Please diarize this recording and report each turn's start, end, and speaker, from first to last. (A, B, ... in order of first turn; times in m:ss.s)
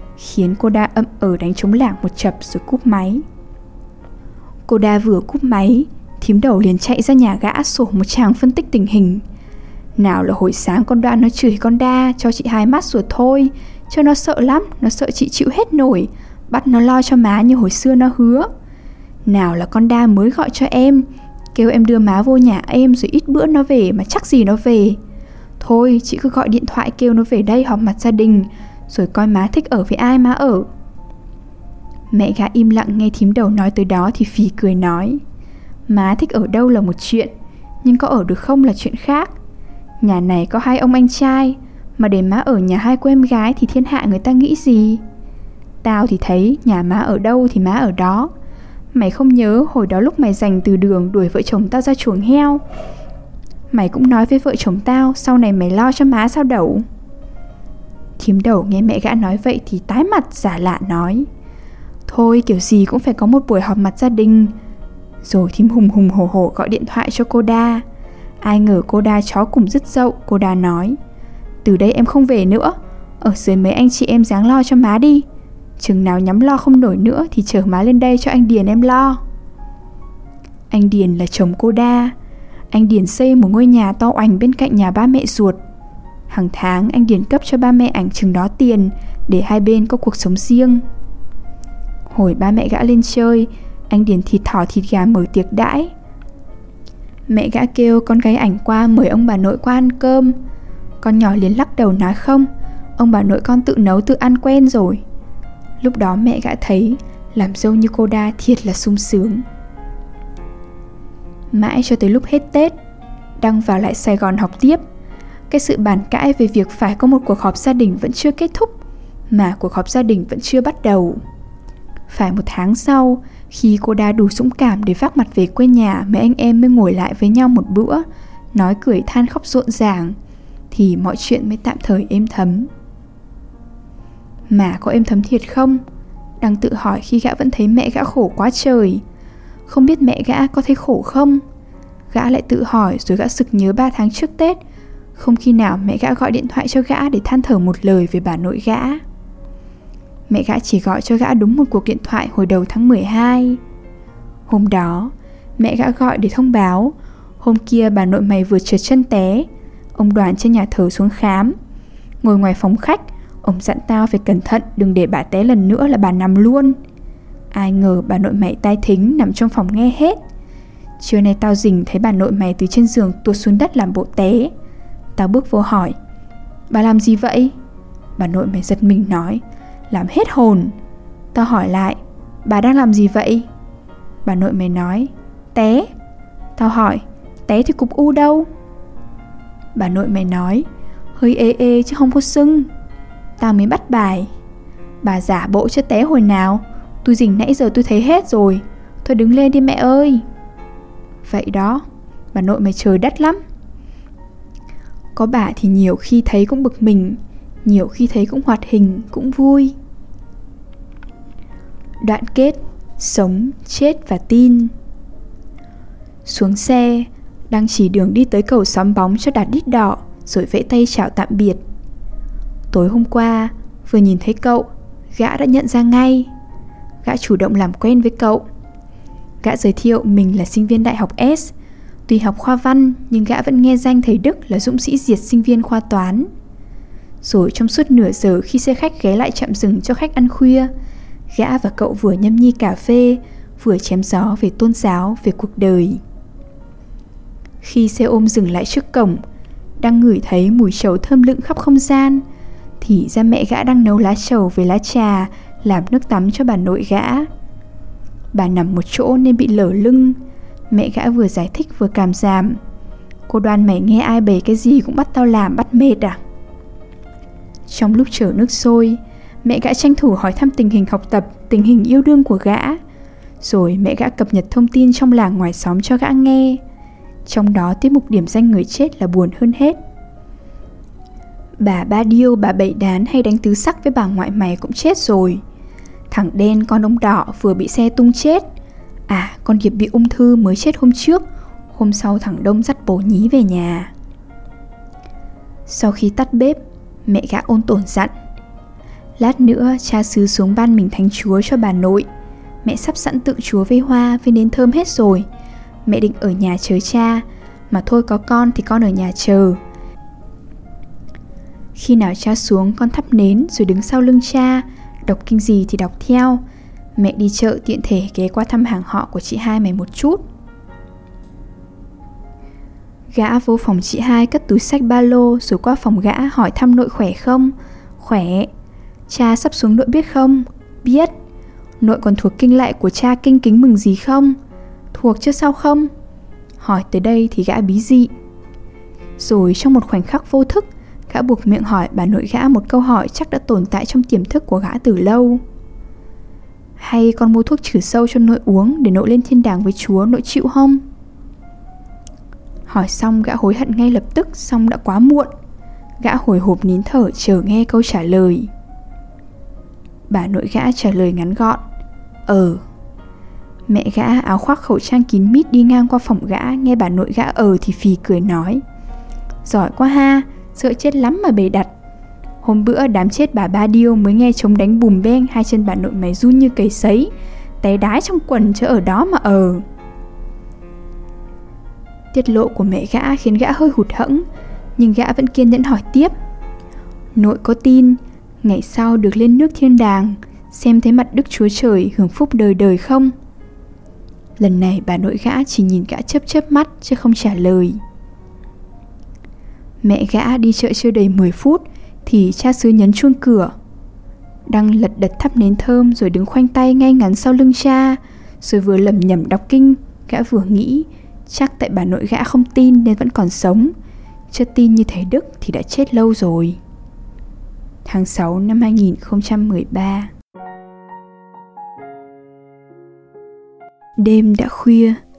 0:00.2-0:03.2 A
0:04.7-0:09.2 A
0:10.0-0:18.5 A
0:19.3-0:25.0 A
0:25.6-0:30.7 A
0:32.1-0:35.2 A
0:35.9-0:37.3 A
0:37.8-0:39.3 A
0:40.0-0:45.0 A
0:45.8-0:48.3 A
0:48.9-0:52.6 A
0:53.7-0:56.8 A
0:58.2-1:01.3 A
1:02.1-1:04.6 A
1:05.2-1:07.8 A
1:08.4-1:11.0 A
1:11.6-1:15.3 A
1:15.8-1:19.2 A
1:20.7-1:22.1 A
1:22.7-1:25.6 A
1:26.3-1:30.8 A
1:32.1-1:35.9 A
1:37.3-1:40.4 A
1:41.0-1:45.0 A
1:45.8-1:49.4 A
1:51.5-1:52.8 A
1:53.4-1:54.8 A
1:55.5-1:58.8 A
1:59.3-2:01.2 A
2:02.1-2:10.2 A
2:10.7-2:12.7 A
2:14.5-2:15.8 A
2:16.4-2:19.0 A
2:19.7-2:21.4 A
2:22.1-2:24.6 A
2:25.2-2:29.0 A
2:30.3-2:33.6 A
2:34.5-2:41.6 A
2:42.2-2:46.8 A
2:47.5-2:50.2 A
2:51.0-2:54.5 A
2:55.2-2:56.0 A
2:56.7-2:57.5 A
2:58.2-3:00.8 A
3:01.3-3:03.5 A
3:04.2-3:05.9 A
3:06.6-3:08.5 A
3:09.8-3:12.7 A
3:13.4-3:14.3 A
3:15.0-3:20.2 A
3:21.2-3:23.4 A
3:25.2-3:29.8 A
3:32.0-3:34.7 A
3:36.2-3:41.6 A
3:42.7-3:46.3 A
3:47.0-3:48.4 A
3:49.4-3:51.5 A
3:52.1-3:56.3 A
3:57.2-4:00.7 A
4:01.3-4:06.0 A
4:07.6-4:09.2 A
4:09.8-4:12.2 A
4:12.8-4:17.3 A
4:18.3-4:22.6 A
4:23.3-4:26.2 A
4:27.7-4:32.8 A
4:33.4-4:36.6 A
4:37.3-4:39.8 A
4:41.6-4:45.4 A
4:46.1-4:48.4 A
4:49.1-4:53.9 A
4:55.6-4:58.1 A
4:59.2-5:02.1 A
5:02.6-5:05.3 A
5:05.9-5:09.6 A
5:11.8-5:16.4 A
5:17.0-5:20.2 A
5:23.1-5:28.5 A
5:29.1-5:31.1 A
5:31.8-5:34.4 A
5:34.9-5:35.9 A
5:36.6-5:38.1 A
5:39.2-5:45.4 A
5:46.8-5:50.8 A
5:52.7-5:55.3 A
5:56.0-5:58.5 A
6:00.1-6:01.6 A
6:02.3-6:02.6 A
6:03.7-6:08.6 A
6:09.4-6:11.7 A
6:12.4-6:19.6 A
6:22.1-6:24.2 A
6:24.8-6:26.1 A
6:27.1-6:33.1 A
6:34.4-6:37.8 A
6:39.8-6:43.5 A
6:44.5-6:53.7 A
6:54.3-6:56.6 A
6:57.9-7:00.1 A
7:04.0-7:05.0 A